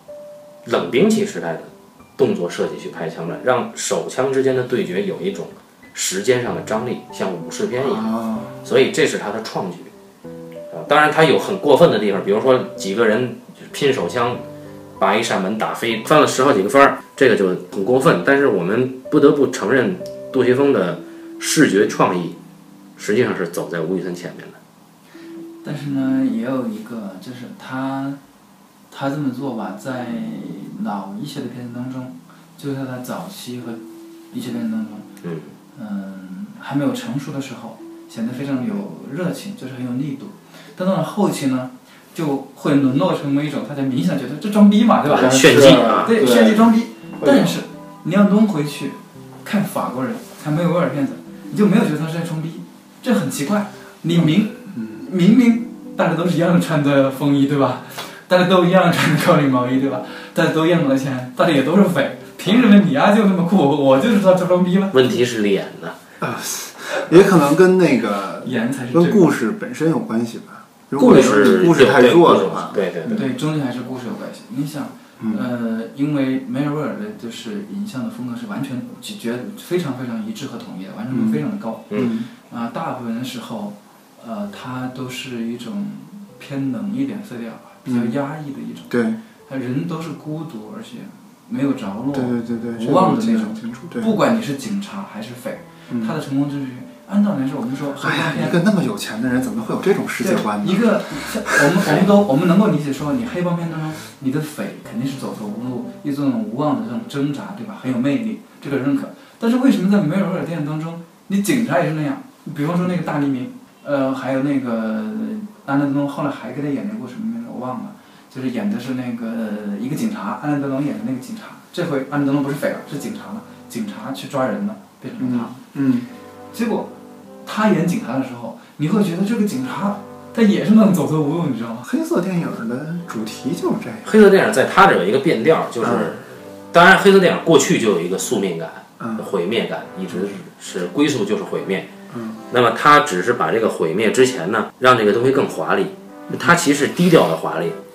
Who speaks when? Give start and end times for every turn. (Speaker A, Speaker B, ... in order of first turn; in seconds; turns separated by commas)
Speaker A: 0.7-9.9, Speaker B: 7.8-8.6, Speaker A: 10.7-14.4, Speaker A: 15.0-22.4, Speaker A: 23.0-24.6, Speaker C: 25.6-28.2, Speaker C: 28.9-33.8, Speaker C: 34.3-35.1, Speaker A: 35.2-35.5, Speaker C: 35.7-45.5, Speaker A: 45.1-46.1, Speaker B: 45.1-47.6, Speaker C: 46.0-65.0, Speaker B: 54.1-55.0, Speaker A: 64.9-66.0, Speaker B: 66.2-73.3, Speaker C: 68.4-69.3, Speaker A: 71.0-73.2, Speaker C: 73.1-88.9, Speaker B: 81.1-81.4, Speaker B: 81.9-82.3, Speaker B: 87.9-88.2, Speaker B: 88.9-89.2, Speaker C: 89.5-98.6, Speaker B: 92.1-94.1, Speaker B: 95.9-96.2, Speaker B: 98.0-101.8, Speaker C: 100.2-125.6, Speaker B: 125.2-126.1, Speaker C: 126.5-126.9, Speaker C: 127.5-131.9, Speaker B: 131.8-134.1, Speaker A: 134.1-141.9, Speaker B: 135.8-136.2, Speaker B: 139.0-139.3, Speaker B: 142.1-142.4, Speaker A: 142.5-147.8, Speaker B: 146.3-146.6